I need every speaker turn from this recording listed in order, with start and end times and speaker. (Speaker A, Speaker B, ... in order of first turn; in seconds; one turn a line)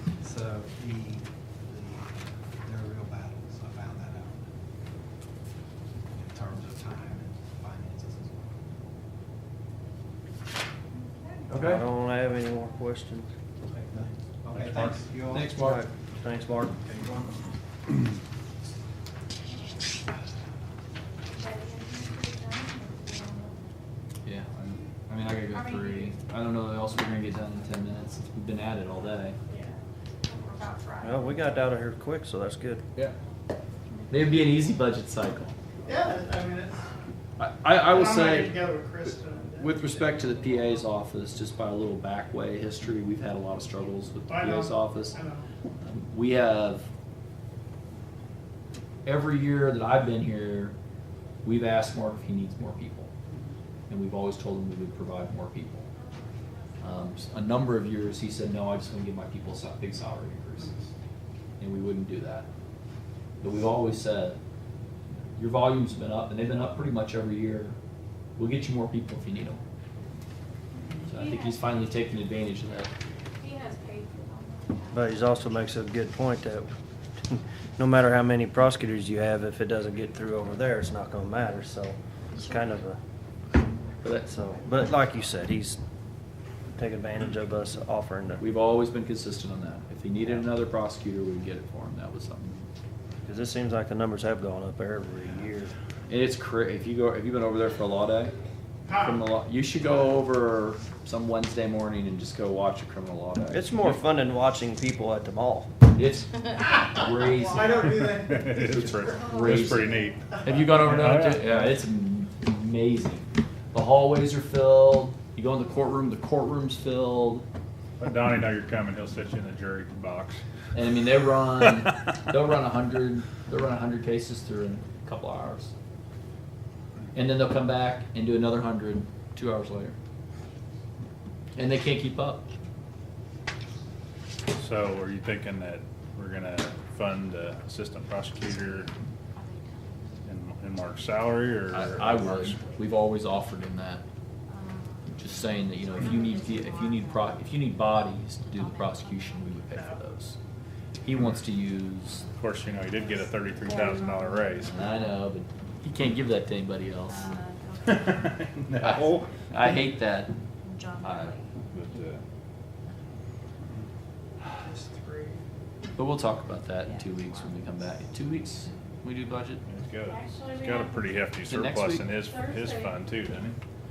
Speaker A: 0.2-4.5
Speaker A: 6.2-8.6
Speaker B: 11.5-11.8
Speaker C: 11.5-13.3
Speaker A: 13.7-15.5
Speaker B: 15.3-15.8
Speaker C: 15.6-16.8
Speaker A: 16.9-17.3
Speaker D: 21.3-23.8
Speaker B: 24.2-24.5
Speaker B: 25.1-29.4
Speaker D: 25.5-26.1
Speaker D: 29.5-31.4
Speaker C: 31.0-32.9
Speaker B: 34.1-35.6
Speaker E: 35.9-36.9
Speaker B: 37.4-45.2
Speaker E: 37.8-40.6
Speaker E: 44.3-45.5
Speaker B: 45.8-46.9
Speaker B: 49.0-50.8
Speaker B: 51.4-53.1
Speaker E: 53.3-53.5
Speaker B: 53.9-55.9
Speaker B: 56.8-60.8
Speaker B: 61.6-62.5
Speaker B: 63.4-64.4
Speaker B: 65.3-67.8
Speaker B: 68.4-69.6
Speaker B: 71.1-72.9
Speaker D: 71.1-71.9
Speaker D: 73.4-75.2
Speaker C: 74.9-76.7
Speaker C: 77.3-83.0
Speaker B: 84.0-84.3
Speaker C: 84.3-85.8
Speaker C: 86.8-88.4
Speaker B: 88.4-92.7
Speaker C: 93.2-95.7
Speaker B: 96.1-98.3
Speaker E: 98.9-99.2
Speaker B: 99.0-104.0
Speaker C: 103.5-105.7
Speaker B: 105.9-117.5
Speaker E: 107.4-109.3
Speaker F: 108.1-111.7
Speaker D: 109.1-110.1
Speaker F: 118.0-120.4
Speaker B: 120.7-125.7
Speaker B: 127.1-130.0
Speaker B: 131.6-132.5
Speaker F: 134.5-138.9
Speaker D: 138.7-140.2
Speaker F: 140.2-142.6
Speaker B: 141.7-144.0
Speaker D: 142.1-142.8
Speaker D: 144.5-145.2
Speaker B: 145.2-150.4
Speaker D: 145.9-147.4
Speaker D: 148.5-149.6
Speaker E: 149.7-150.0
Speaker B: 151.0-152.2
Speaker D: 152.2-155.0
Speaker F: 152.4-154.7
Speaker B: 154.7-157.4
Speaker D: 157.1-158.4
Speaker F: 157.8-159.3
Speaker B: 158.8-160.3
Speaker D: 160.6-161.5
Speaker B: 161.0-161.3
Speaker F: 161.7-162.2
Speaker E: 164.6-165.4
Speaker B: 166.0-169.6
Speaker D: 166.9-167.6
Speaker F: 169.7-173.6
Speaker D: 170.1-171.1
Speaker B: 171.5-172.1
Speaker D: 172.2-172.9